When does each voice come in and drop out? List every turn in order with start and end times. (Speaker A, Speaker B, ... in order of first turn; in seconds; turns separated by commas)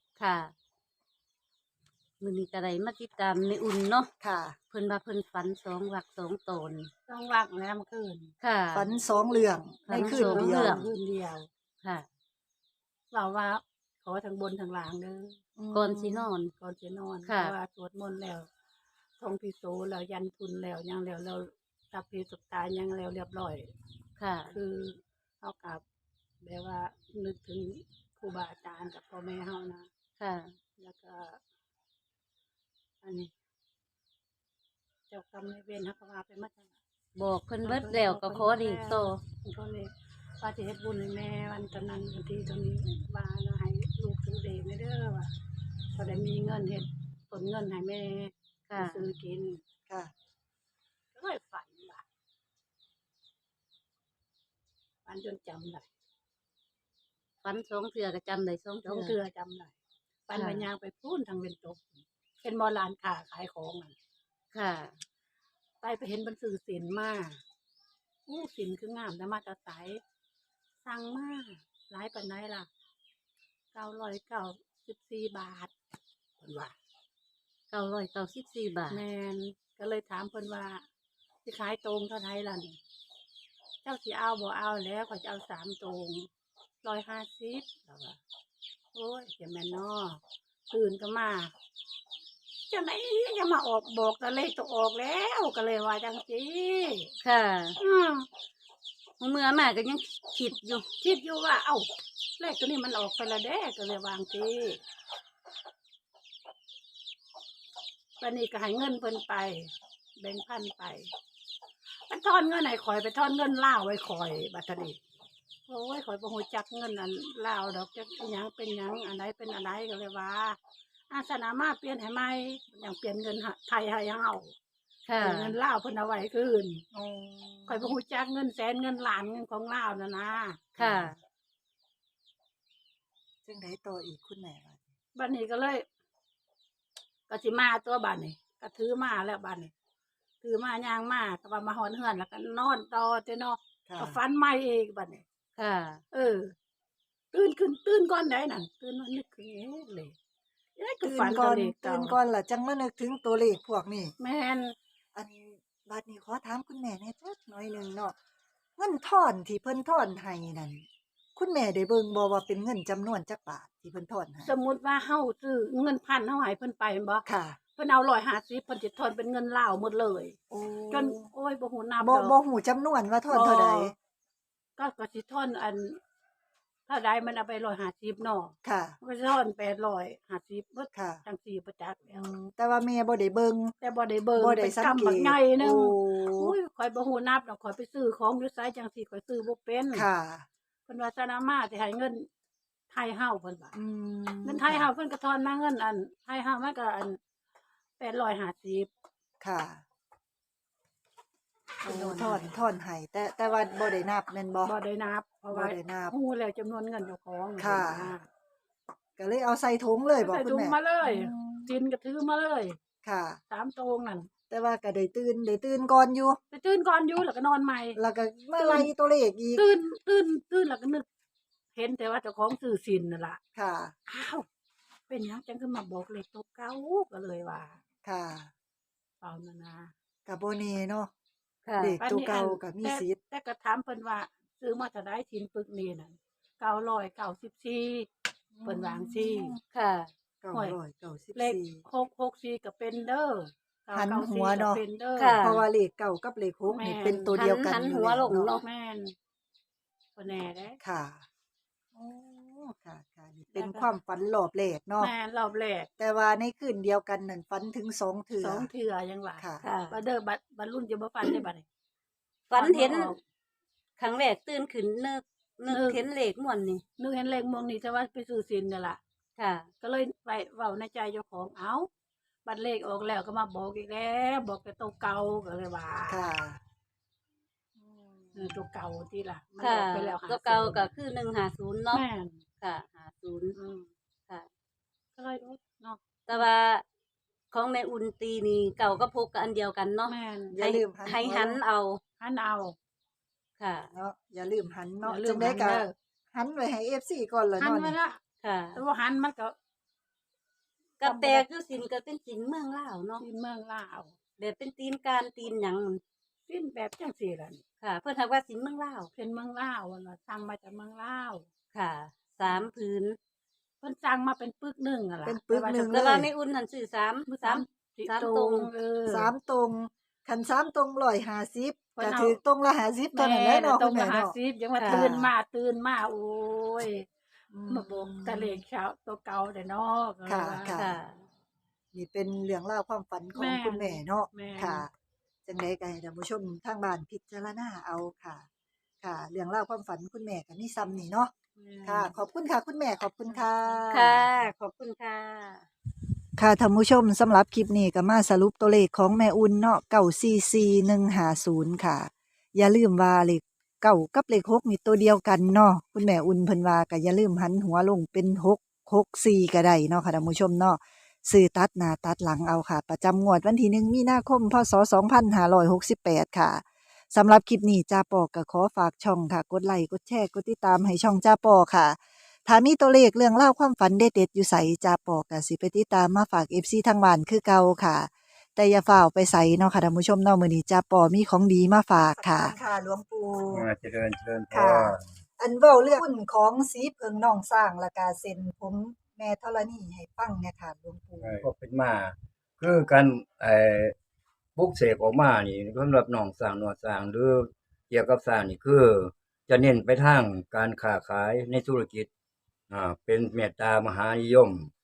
Speaker A: 0.2-0.5, Speaker A: 2.2-4.1, Speaker B: 4.2-4.6, Speaker A: 4.7-6.9, Speaker C: 7.1-8.3, Speaker A: 8.4-8.9, Speaker B: 8.7-10.8, Speaker A: 9.9-10.9, Speaker C: 9.9-11.5, Speaker C: 13.1-15.4, Speaker B: 15.6-16.3, Speaker A: 15.7-16.5, Speaker C: 16.6-18.5, Speaker A: 17.2-17.5, Speaker C: 19.2-23.7, Speaker A: 24.2-24.5, Speaker C: 24.5-25.8, Speaker C: 26.4-29.9, Speaker A: 30.2-30.5, Speaker C: 30.8-31.4, Speaker C: 33.0-33.3, Speaker C: 35.1-36.7, Speaker A: 37.1-39.2, Speaker C: 37.6-45.3, Speaker C: 45.9-49.6, Speaker A: 48.7-49.1, Speaker C: 51.1-52.0, Speaker C: 55.0-55.9, Speaker A: 57.4-59.1, Speaker C: 58.8-59.7, Speaker C: 60.3-63.9, Speaker A: 60.3-60.6, Speaker A: 64.5-65.0, Speaker C: 65.8-67.4, Speaker C: 68.3-70.0, Speaker C: 70.8-72.7, Speaker C: 73.7-75.7, Speaker C: 76.4-76.7, Speaker A: 77.7-79.0, Speaker C: 78.9-80.8, Speaker C: 81.4-82.8, Speaker C: 83.8-86.3, Speaker C: 86.8-88.2, Speaker C: 88.9-91.5, Speaker C: 92.7-97.1, Speaker A: 97.2-97.8, Speaker C: 97.8-98.3, Speaker A: 99.2-100.8, Speaker C: 101.0-101.9, Speaker C: 102.4-104.8, Speaker C: 108.2-111.1, Speaker C: 112.1-115.0, Speaker C: 115.7-120.6, Speaker C: 121.1-124.5, Speaker A: 125.0-125.5, Speaker C: 125.2-126.8, Speaker B: 126.9-127.9, Speaker C: 127.7-130.7, Speaker B: 130.8-131.2, Speaker A: 130.8-131.1, Speaker B: 133.4-134.8, Speaker C: 135.1-135.8, Speaker C: 137.3-139.7, Speaker C: 140.4-145.2, Speaker B: 143.9-144.2, Speaker A: 145.6-146.0, Speaker C: 146.1-146.5, Speaker C: 147.3-150.1, Speaker C: 150.8-152.2, Speaker B: 151.0-154.1, Speaker C: 154.2-154.7, Speaker B: 155.1-158.2, Speaker B: 158.8-160.8, Speaker B: 161.3-164.5, Speaker C: 164.4-167.2, Speaker B: 167.2-167.6, Speaker C: 167.8-170.4, Speaker B: 170.5-171.3, Speaker C: 170.9-172.3, Speaker B: 172.0-173.9, Speaker C: 173.3-173.9, Speaker C: 174.8-176.0, Speaker C: 176.9-182.2, Speaker B: 178.6-178.9, Speaker B: 180.9-181.2, Speaker B: 182.1-183.7, Speaker C: 183.8-190.1, Speaker B: 184.4-186.5, Speaker B: 189.9-190.4, Speaker C: 190.9-192.3, Speaker C: 192.9-193.7, Speaker B: 193.7-194.9, Speaker C: 194.4-197.2, Speaker C: 198.0-198.9, Speaker B: 199.4-199.8, Speaker C: 201.8-202.5, Speaker B: 201.8-204.7, Speaker C: 204.7-208.3, Speaker B: 205.5-206.1, Speaker B: 207.6-208.1, Speaker B: 209.2-211.7, Speaker C: 210.2-212.8, Speaker B: 213.0-213.4, Speaker C: 213.5-214.3, Speaker B: 214.5-216.4, Speaker C: 216.5-218.0, Speaker B: 217.9-219.6, Speaker C: 218.6-218.9, Speaker C: 219.6-221.0, Speaker C: 221.7-223.4, Speaker B: 223.6-223.9, Speaker C: 224.1-224.4, Speaker C: 225.1-227.8, Speaker B: 228.0-228.5, Speaker C: 229.2-229.9, Speaker B: 230.2-231.1, Speaker A: 231.7-232.0, Speaker B: 231.8-233.2, Speaker C: 232.0-238.1, Speaker B: 238.5-239.6, Speaker C: 238.6-239.5, Speaker A: 239.7-240.1, Speaker B: 240.4-241.8, Speaker C: 241.3-245.4, Speaker B: 243.9-244.8, Speaker A: 245.2-245.6, Speaker B: 245.4-248.4, Speaker C: 246.7-247.4, Speaker A: 247.3-248.6, Speaker C: 248.3-249.1, Speaker C: 250.2-250.8, Speaker B: 250.8-251.2, Speaker B: 251.9-255.1, Speaker C: 253.5-253.9, Speaker C: 255.0-255.9, Speaker B: 256.0-258.7, Speaker C: 258.4-261.6, Speaker A: 259.6-260.0, Speaker A: 262.5-263.1, Speaker C: 262.5-263.2, Speaker A: 264.0-266.8, Speaker C: 265.7-266.0, Speaker C: 267.0-269.0, Speaker A: 269.4-269.7, Speaker C: 269.8-271.9, Speaker C: 272.4-276.3, Speaker B: 276.1-276.6, Speaker B: 277.8-278.5, Speaker C: 278.3-280.9, Speaker A: 279.6-282.0, Speaker C: 281.9-282.4, Speaker A: 282.6-283.6, Speaker C: 283.5-283.9, Speaker C: 285.2-286.5, Speaker A: 286.3-286.8, Speaker A: 287.5-292.0, Speaker C: 290.1-290.6, Speaker B: 290.5-291.6, Speaker C: 292.2-292.7, Speaker A: 293.6-293.9, Speaker B: 293.9-297.9, Speaker C: 295.0-295.9, Speaker C: 297.6-298.2, Speaker A: 298.4-298.8, Speaker C: 298.7-299.5, Speaker A: 301.0-303.2, Speaker C: 301.0-301.4, Speaker C: 303.2-304.1, Speaker A: 304.4-306.0, Speaker C: 306.5-307.6, Speaker A: 307.8-309.1, Speaker C: 309.1-311.4, Speaker A: 311.7-313.2, Speaker C: 312.4-312.7, Speaker C: 313.8-316.0, Speaker B: 315.2-316.3, Speaker A: 315.9-318.7, Speaker C: 317.3-319.3, Speaker B: 319.1-325.3, Speaker C: 322.0-322.4, Speaker C: 323.1-327.1, Speaker A: 324.7-325.1, Speaker B: 327.5-328.6, Speaker C: 327.7-331.0, Speaker B: 330.2-330.9, Speaker A: 330.7-331.2, Speaker B: 331.9-334.9, Speaker C: 333.3-334.9, Speaker B: 335.5-338.4, Speaker B: 339.0-341.3, Speaker C: 341.6-342.1, Speaker B: 341.8-344.2, Speaker C: 343.3-343.9, Speaker A: 343.9-345.6, Speaker B: 346.4-383.6, Speaker C: 382.1-382.5, Speaker D: 383.5-385.0, Speaker B: 384.5-391.4, Speaker D: 391.2-393.9, Speaker D: 394.6-402.1, Speaker D: 402.7-404.7